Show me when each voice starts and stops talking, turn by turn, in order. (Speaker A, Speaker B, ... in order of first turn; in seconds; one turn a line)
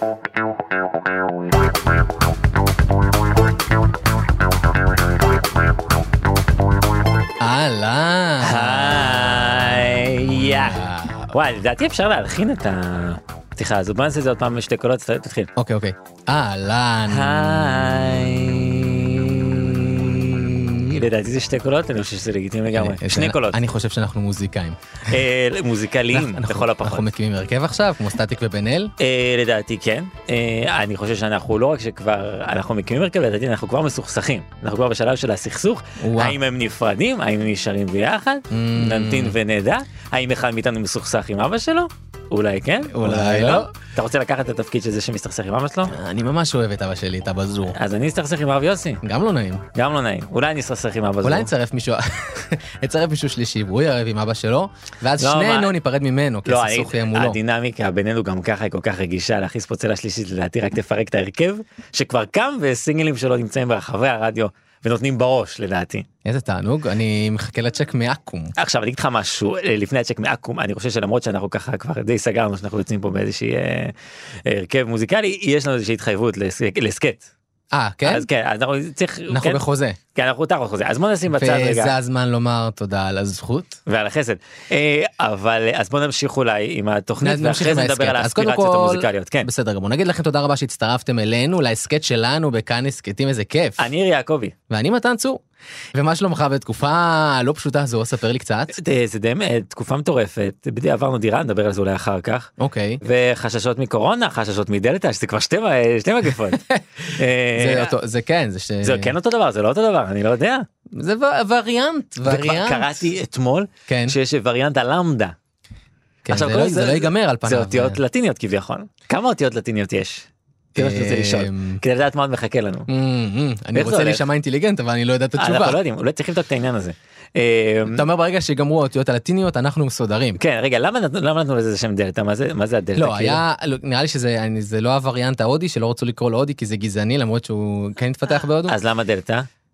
Speaker A: 7.4-9.5
Speaker B: 8.4-15.5
Speaker A: 10.5-11.3
Speaker A: 15.6-21.0
Speaker B: 17.1-23.6
Speaker A: 22.7-24.8
Speaker B: 25.1-27.1
Speaker A: 26.1-28.9
Speaker B: 29.0-45.9
Speaker A: 36.0-36.4
Speaker A: 38.5-39.4
Speaker A: 42.9-43.7
Speaker A: 45.9-47.8
Speaker B: 47.7-49.0
Speaker A: 49.0-49.6
Speaker B: 49.7-51.5
Speaker A: 51.2-57.4
Speaker B: 55.2-55.7
Speaker B: 56.5-66.1
Speaker A: 66.2-68.5
Speaker B: 68.6-73.9
Speaker B: 74.4-77.3
Speaker A: 77.7-78.2
Speaker B: 78.0-79.6
Speaker A: 79.3-80.0
Speaker B: 80.1-81.9
Speaker A: 81.3-83.8
Speaker B: 83.9-89.5
Speaker A: 87.2-93.8
Speaker B: 93.8-94.5
Speaker A: 94.7-95.4
Speaker A: 95.9-98.7
Speaker B: 98.7-107.9
Speaker A: 102.6-103.0
Speaker A: 107.5-109.1
Speaker B: 108.8-110.7
Speaker A: 110.9-113.0
Speaker B: 112.2-115.3
Speaker A: 113.9-114.2
Speaker A: 116.2-118.0
Speaker B: 116.3-122.9
Speaker A: 120.7-121.8
Speaker A: 122.9-125.8
Speaker B: 123.7-124.2
Speaker B: 125.4-128.0
Speaker A: 127.9-130.4
Speaker B: 130.3-133.4
Speaker A: 133.0-138.8
Speaker B: 138.7-139.5